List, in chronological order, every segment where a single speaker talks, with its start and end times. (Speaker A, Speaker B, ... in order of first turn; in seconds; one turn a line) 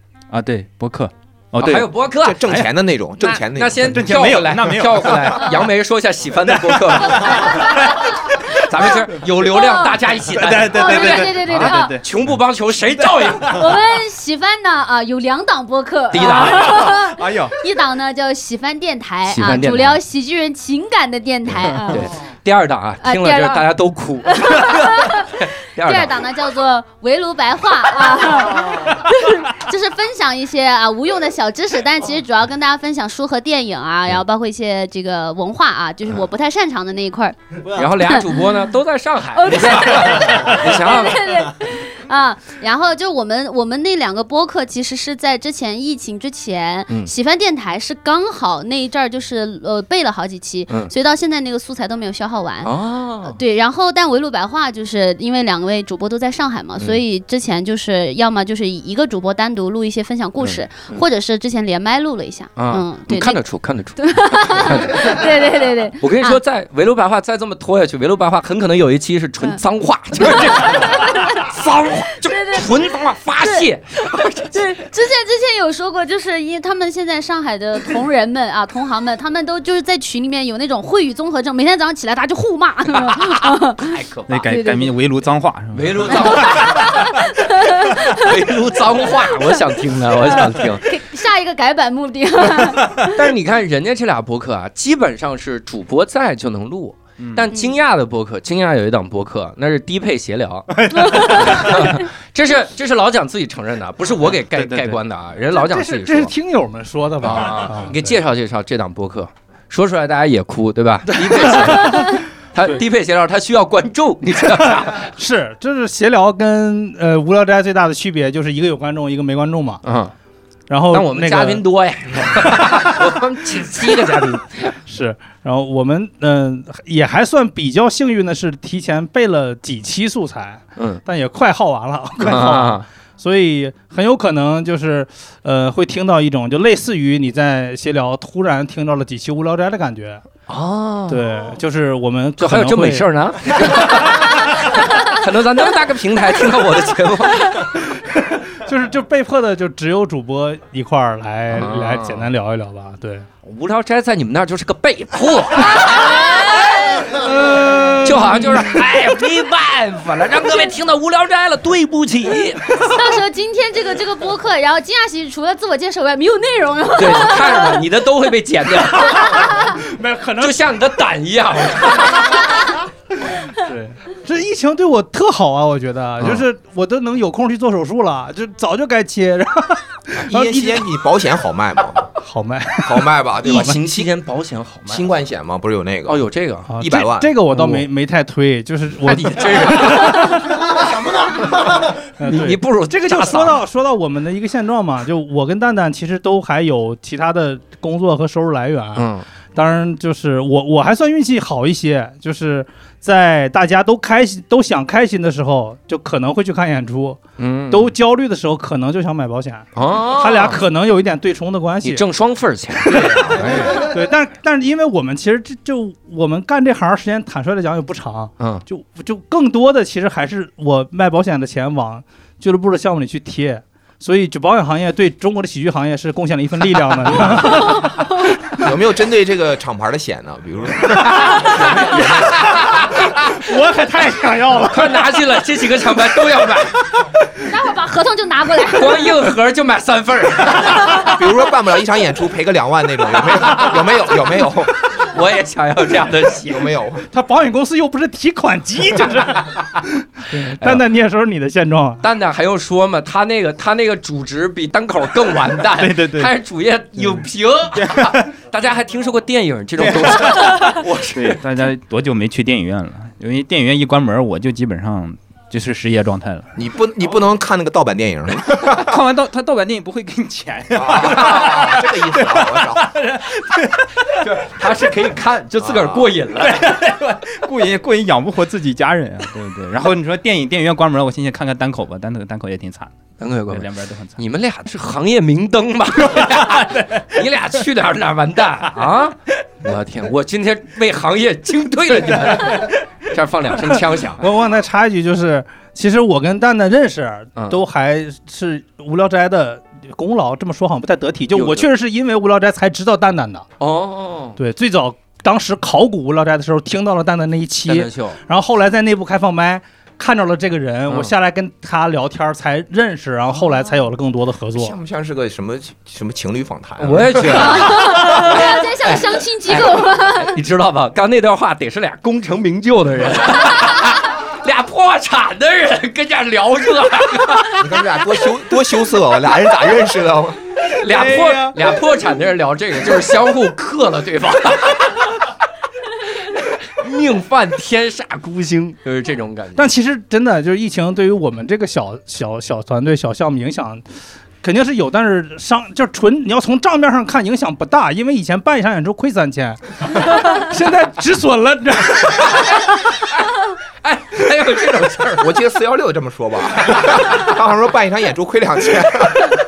Speaker A: 0.3-2.7
Speaker B: 1.6-2.4
Speaker C: 2.2-4.2
Speaker B: 3.2-8.0
Speaker A: 3.9-5.5
Speaker A: 6.4-8.9
Speaker D: 7.2-8.4
Speaker B: 8.5-13.6
Speaker D: 9.4-10.0
Speaker A: 10.3-12.4
Speaker D: 10.7-11.9
Speaker A: 13.0-13.6
Speaker D: 13.4-22.1
Speaker B: 16.1-16.9
Speaker A: 16.2-17.6
Speaker B: 19.2-20.0
Speaker B: 21.7-26.1
Speaker D: 23.0-23.7
Speaker D: 24.2-25.3
Speaker D: 25.8-38.4
Speaker B: 37.7-41.3
Speaker D: 39.4-52.7
Speaker B: 52.6-53.4
Speaker D: 53.2-63.4
Speaker B: 60.4-61.0
Speaker B: 62.5-65.3
Speaker D: 64.0-66.4
Speaker B: 66.0-74.8
Speaker D: 70.2-71.5
Speaker D: 72.3-72.8
Speaker D: 74.5-83.9
Speaker B: 83.0-84.4
Speaker A: 84.3-86.5
Speaker D: 84.4-84.9
Speaker B: 85.7-90.8
Speaker D: 86.1-88.4
Speaker D: 89.1-89.6
Speaker D: 90.2-93.2
Speaker B: 92.9-106.3
Speaker A: 97.2-97.5
Speaker A: 100.7-102.0
Speaker D: 100.9-101.9
Speaker A: 104.5-105.0
Speaker E: 105.5-108.2
Speaker B: 107.2-115.1
Speaker E: 111.6-112.0
Speaker E: 114.6-119.8
Speaker B: 119.8-120.1
Speaker E: 120.7-121.6
Speaker B: 120.9-124.8
Speaker E: 124.8-140.2
Speaker B: 132.2-132.8
Speaker B: 140.5-141.2
Speaker E: 141.1-143.1
Speaker B: 142.4-147.7
Speaker E: 148.1-153.3
Speaker B: 151.5-152.3
Speaker B: 153.4-156.8
Speaker D: 155.7-157.2
Speaker B: 157.8-162.9
Speaker D: 162.8-167.8
Speaker B: 166.9-169.6
Speaker E: 169.8-170.6
Speaker B: 170.4-172.4
Speaker E: 173.5-180.9
Speaker B: 176.2-176.4
Speaker C: 180.2-182.1
Speaker E: 182.2-183.8
Speaker C: 182.8-184.1
Speaker B: 183.4-185.1
Speaker C: 184.8-186.2
Speaker B: 186.1-186.7
Speaker E: 186.7-207.2
Speaker C: 186.8-187.4
Speaker B: 187.5-187.8
Speaker B: 189.0-190.4
Speaker B: 192.2-193.6
Speaker B: 198.9-199.2
Speaker B: 207.4-207.9
Speaker E: 207.7-212.0
Speaker B: 209.7-210.6
Speaker B: 211.8-213.9
Speaker E: 212.8-228.0
Speaker B: 218.4-218.6
Speaker C: 228.6-232.4
Speaker B: 231.4-233.2
Speaker E: 232.2-235.1
Speaker B: 234.7-236.8
Speaker D: 237.4-239.2
Speaker B: 238.7-241.1
Speaker C: 240.9-245.1
Speaker B: 245.0-246.8
Speaker C: 246.3-247.0
Speaker E: 247.1-252.0
Speaker B: 250.6-250.8
Speaker B: 252.0-261.4
Speaker A: 255.8-256.3
Speaker A: 257.0-258.3
Speaker A: 259.8-266.5
Speaker C: 266.5-269.0
Speaker A: 268.6-274.2
Speaker C: 270.7-272.9
Speaker B: 274.2-276.6
Speaker C: 275.6-276.1
Speaker A: 276.4-282.9
Speaker B: 283.2-294.2
Speaker A: 283.5-284.2
Speaker A: 286.1-287.0
Speaker E: 294.2-303.4
Speaker B: 297.4-297.6
Speaker B: 301.3-301.7
Speaker B: 303.6-304.4
Speaker E: 304.4-314.8
Speaker B: 307.6-308.2
Speaker B: 310.9-311.1
Speaker C: 314.5-318.4
Speaker B: 316.8-327.6
Speaker D: 317.2-320.3
Speaker C: 327.6-330.4
Speaker B: 330.7-335.1
Speaker E: 330.9-331.5
Speaker B: 336.5-339.7
Speaker E: 339.6-343.8
Speaker E: 344.4-352.6
Speaker B: 353.8-355.4
Speaker C: 355.2-359.3